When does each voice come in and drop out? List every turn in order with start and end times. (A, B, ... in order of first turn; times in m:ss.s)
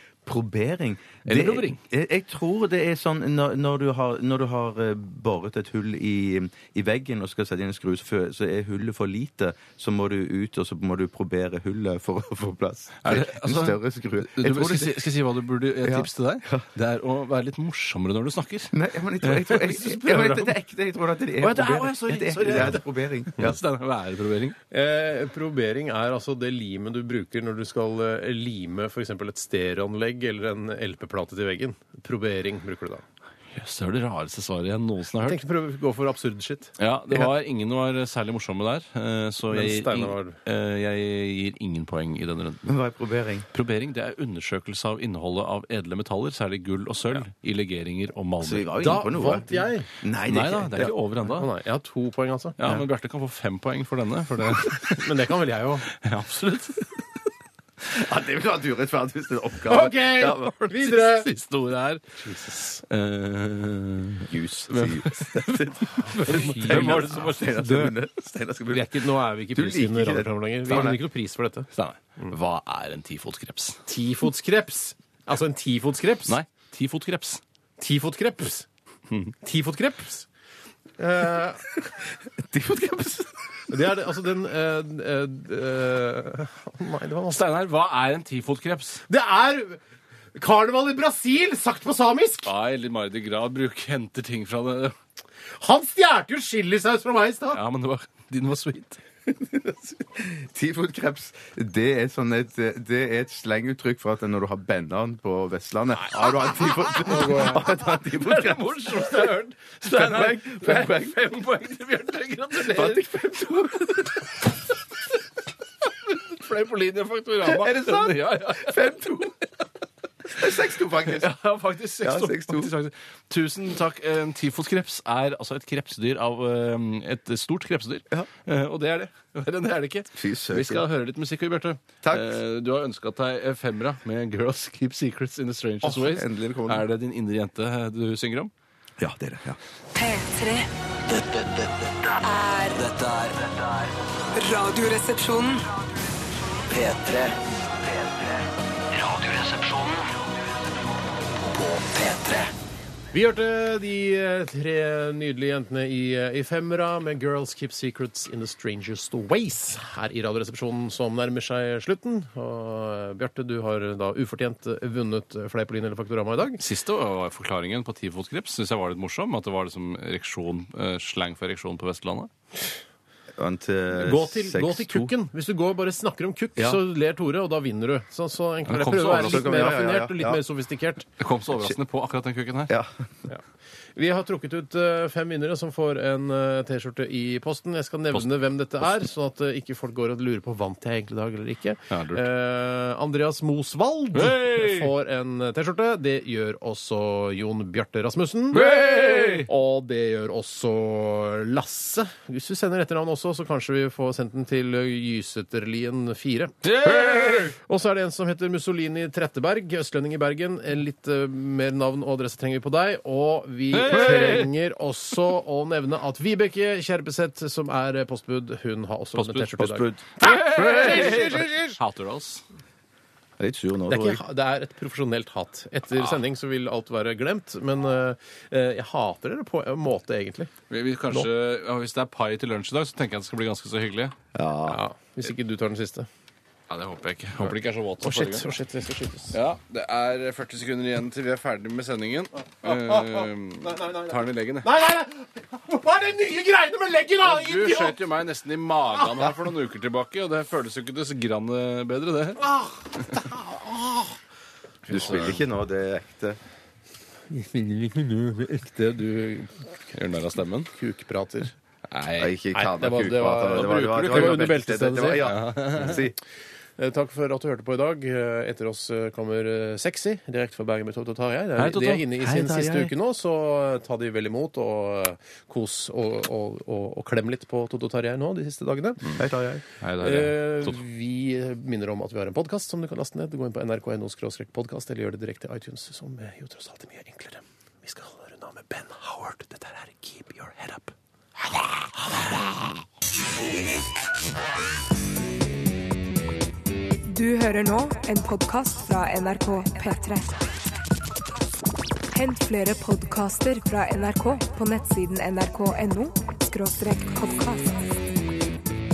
0:00.2-0:15.0 A
0:01.2-0:01.8 B
0:13.0-0:20.5 B
0:15.8-0:16.6 A
0:18.7-0:23.6 A
0:21.4-0:24.6 B
0:24.7-0:33.0 C
0:33.5-0:35.4 B
0:35.2-0:37.3 C
0:36.8-0:42.7 B
0:39.5-0:40.4 C
0:42.6-0:43.5 A
0:43.5-0:48.7 B
0:48.4-0:50.9 A
0:48.8-0:49.9 C
0:50.2-0:51.5 B
0:51.3-0:52.6 C
0:52.6-0:55.2 B
0:55.0-0:55.9 C
0:55.9-0:57.1 B
0:57.8-1:00.6 A
0:59.6-1:01.3 C
1:00.6-1:02.1 B
1:02.2-1:02.8 C
1:02.8-1:07.9 B
1:04.2-1:09.0 A
1:06.0-1:07.1 C
1:08.7-1:11.7 C
1:09.5-1:11.0 A
1:11.7-1:13.8 B
1:13.9-1:16.4 C
1:16.3-1:17.4 B
1:17.8-1:18.7 C
1:19.4-1:20.3 C
1:21.0-1:21.6 C
1:22.2-1:23.7 A
1:23.7-1:27.4 C
1:27.3-1:29.0 B
1:29.1-1:29.8 C
1:30.4-1:32.5 C
1:32.4-1:34.9 B
1:35.6-1:37.6 C
1:37.5-1:39.0 B
1:39.3-1:49.3 A
1:46.0-1:53.2 B
1:47.0-1:47.6 C
1:49.8-1:51.2 A
1:52.6-1:54.2 A
1:56.0-1:58.9 B
1:57.4-1:59.4 A
2:00.3-2:01.3 A
2:01.0-2:18.5 B
2:02.0-2:02.7 A
2:10.2-2:10.9 A
2:15.8-2:16.8 A
2:19.0-2:19.6 A
2:19.9-2:25.6 D
2:26.7-2:30.1 D
2:31.3-2:32.5 D
2:33.1-2:46.6 C
2:46.6-2:52.3 B
2:53.4-2:55.1 A
2:53.9-3:01.1 C
2:58.7-2:59.5 B
2:59.2-3:00.4 A
3:01.2-3:02.7 B
3:02.7-3:03.3 A
3:04.0-3:41.8 C
3:11.9-3:12.2 B
3:14.1-3:14.9 B
3:18.5-3:19.5 B
3:26.6-3:27.5 B
3:33.7-3:34.5 B
3:39.2-3:39.6 B
3:39.6-3:41.4 A
3:40.2-3:42.4 B
3:43.4-3:44.2 A
3:43.9-3:50.5 C
3:50.7-3:54.2 B
3:54.3-3:54.8 A
3:54.6-3:56.1 C
3:56.7-3:58.5 B
3:57.4-3:59.4 C
3:59.3-4:04.7 B
4:02.6-4:08.0 C
4:07.2-4:12.4 B
4:12.4-4:14.2 C
4:14.9-4:16.4 A
4:14.9-4:15.4 B
4:17.3-4:19.6 C
4:19.9-4:20.7 B
4:20.7-4:21.5 C
4:21.9-4:22.3 B
4:22.2-4:26.2 A
4:22.5-4:25.3 C
4:23.4-4:26.0 B
4:26.8-4:39.2 C
4:31.6-4:32.9 B
4:39.2-4:39.6 A
4:39.8-4:40.8 B
4:40.0-4:52.8 C
4:57.1-5:00.4 E
5:02.1-5:07.8 E